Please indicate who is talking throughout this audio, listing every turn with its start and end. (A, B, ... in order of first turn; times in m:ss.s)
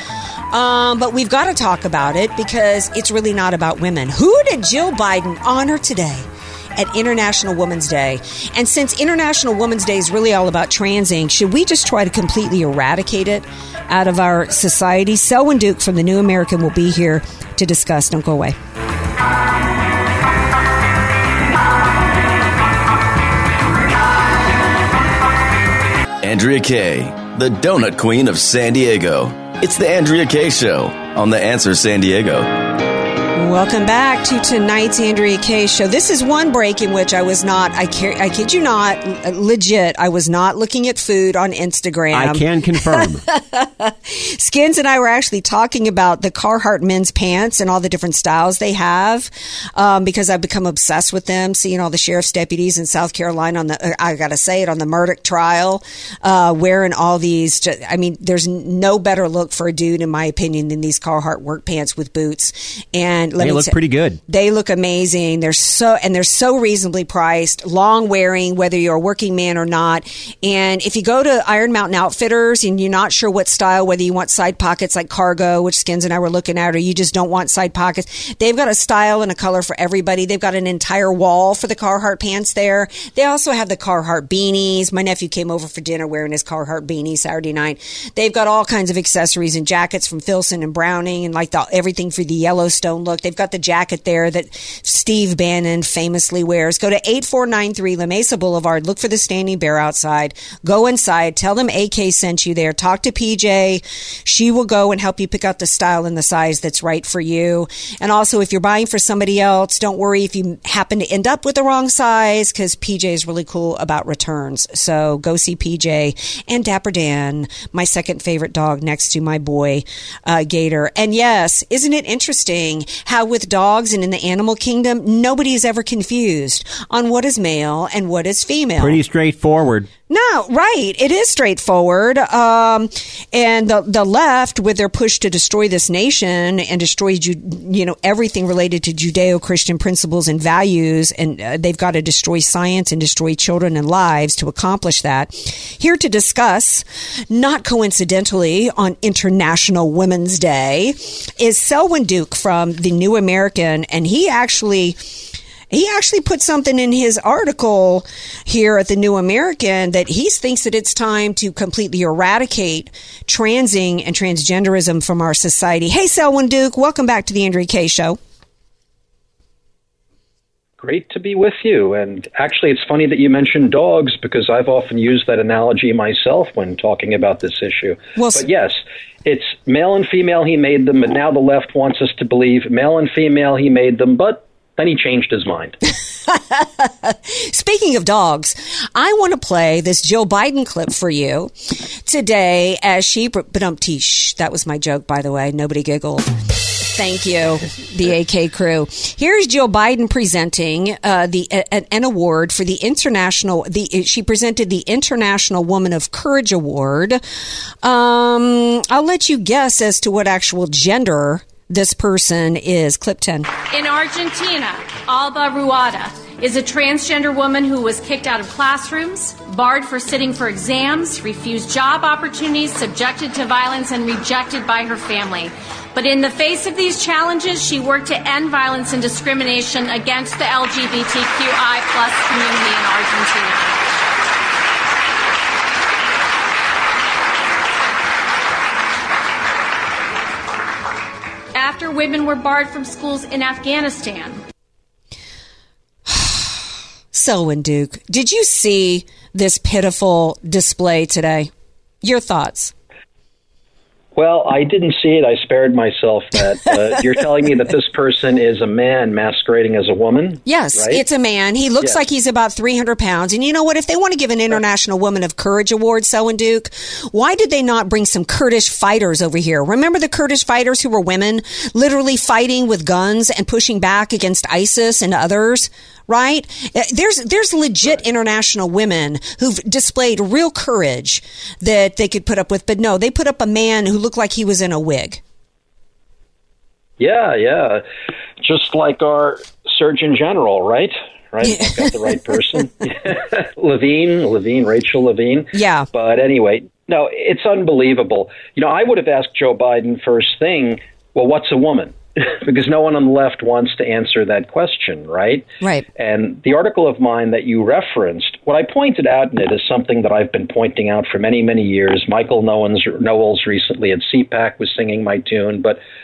0:00.5-0:18.6 A
0:26.2-0:32.6 B
0:33.4-2:09.0 A
0:42.1-0:43.2 C
1:03.4-1:04.2 C
2:08.8-2:09.9 C
2:10.1-2:35.0 A
2:35.7-2:48.2 A
2:50.8-3:05.8 D
2:58.2-2:58.5 A
3:06.3-3:11.5 A
3:12.0-3:27.2 A
3:27.8-3:33.5 A
3:33.7-3:53.8 E
4:01.6-4:04.4 E
4:06.1-4:06.5 A
4:07.1-4:11.5 A
4:12.0-4:12.7 A
4:14.2-4:21.0 D
4:20.4-4:45.2 A
4:47.0-4:47.8 D
4:48.4-5:15.8 D
4:51.4-4:51.9 A
4:55.5-4:55.9 A
5:05.6-5:05.9 A